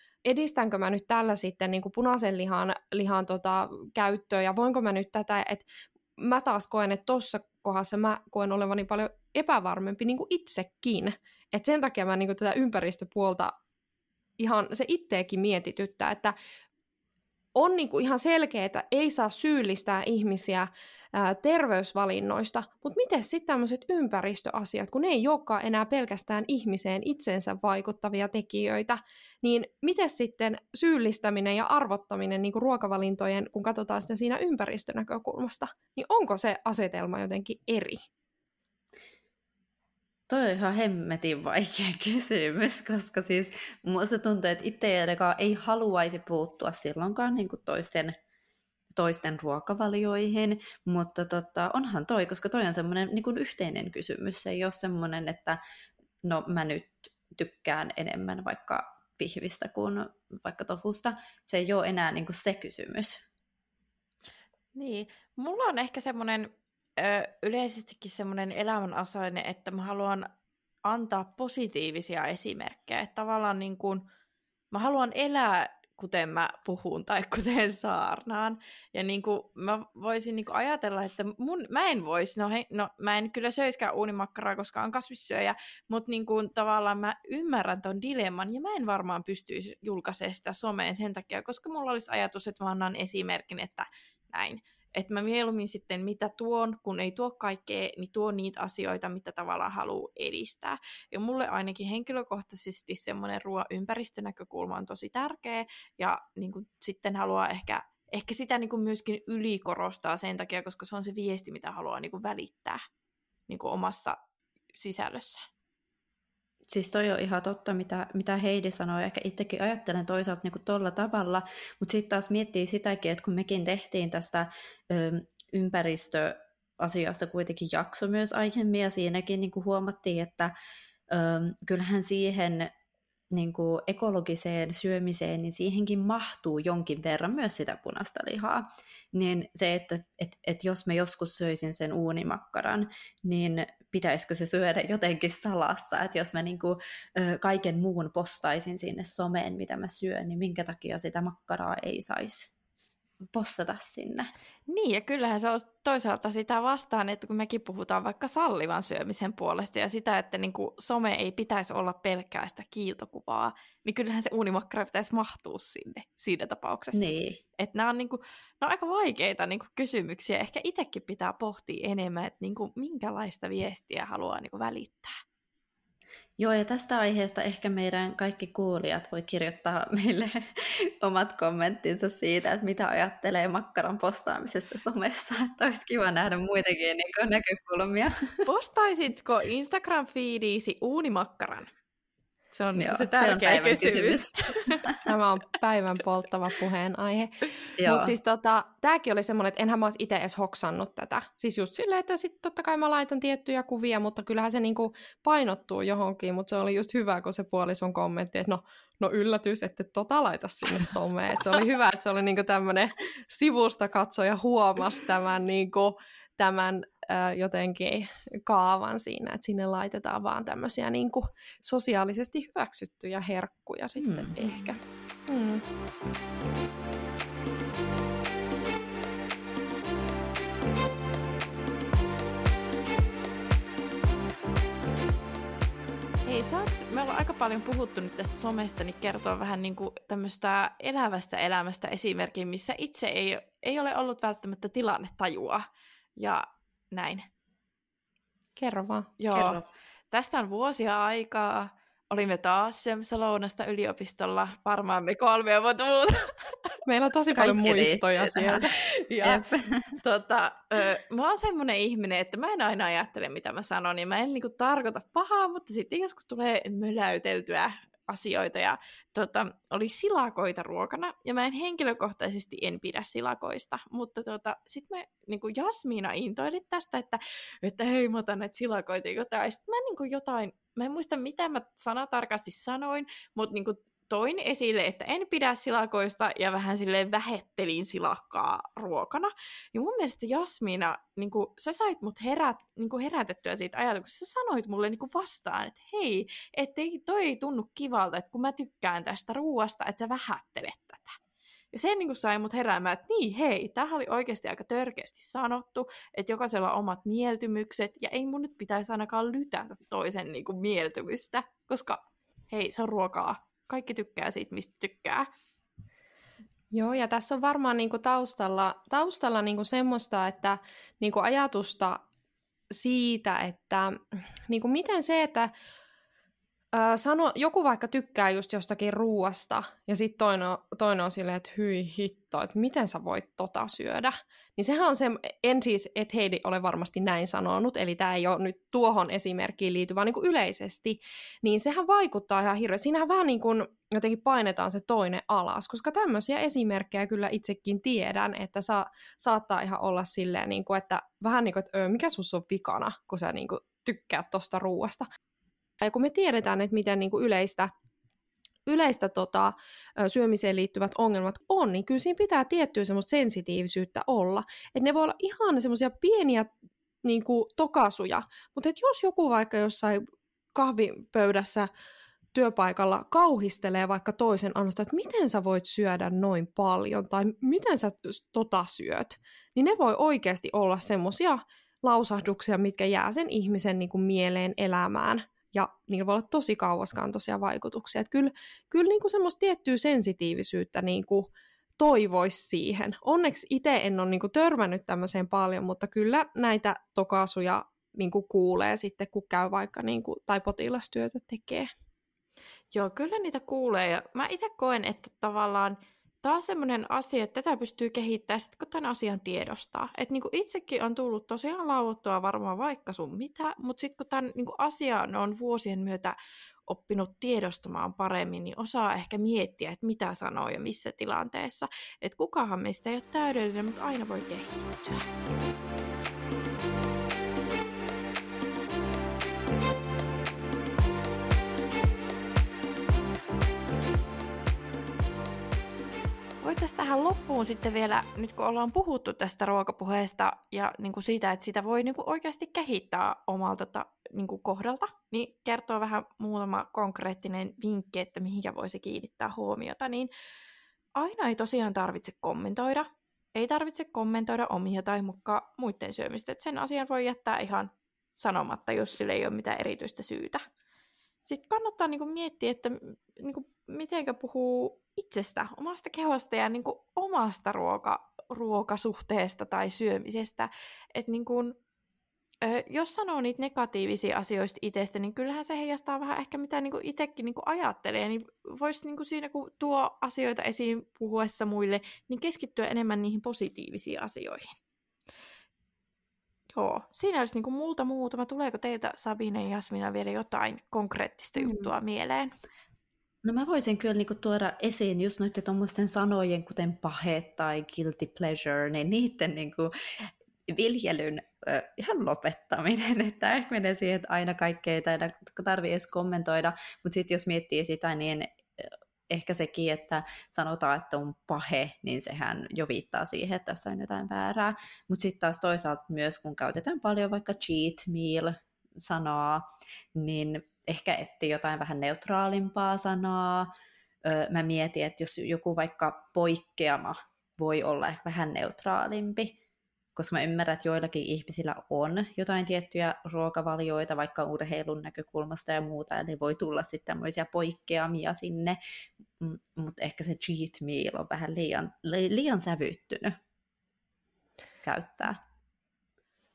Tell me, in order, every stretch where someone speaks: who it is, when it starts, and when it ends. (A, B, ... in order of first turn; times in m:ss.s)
0:00.2-0:13.6 A
0:14.4-0:16.4 A
0:17.6-0:38.0 A
0:40.3-0:48.2 B
0:48.9-0:55.6 B
0:56.2-1:03.2 B
1:04.8-1:10.3 C
1:10.8-1:14.0 C
1:14.7-1:52.8 C
1:53.5-1:54.2 C
1:54.7-1:55.5 C
1:56.7-2:10.5 B
2:11.1-2:12.7 B
2:13.3-2:32.5 B
2:33.3-2:34.3 B
2:34.7-2:55.1 C
2:46.9-2:47.4 B
2:56.4-3:08.4 B
3:08.5-3:11.7 C
3:12.5-3:14.9 C
3:12.8-3:14.9 B
3:15.1-3:17.3 A
3:17.8-3:18.1 B
3:17.8-3:45.6 A
3:44.0-3:44.5 B
3:56.3-4:05.6 C
4:06.2-4:07.3 C
4:08.6-4:09.1 A
4:09.2-4:16.8 C
4:09.3-4:09.6 B
4:16.9-4:18.7 A
4:17.4-4:18.6 B
4:18.8-5:01.2 C
4:19.2-4:20.0 B
5:01.7-5:15.3 C
5:16.7-5:22.0 A
5:22.7-5:25.5 A
5:26.7-5:55.1 A
5:55.8-5:57.7 A
5:58.7-6:06.5 A
6:07.0-6:11.7 A
6:12.4-6:41.7 A
6:42.7-6:56.2 C
6:56.7-7:05.1 C
7:16.4-7:30.1 C
7:31.0-7:40.4 C
7:41.2-7:51.6 C
7:52.4-8:04.5 C
8:06.5-8:12.3 C
8:11.4-8:11.7 B
8:13.2-8:43.5 B
8:44.0-8:49.4 B
8:50.0-8:58.6 B
8:59.2-9:03.2 B
9:04.6-9:05.2 B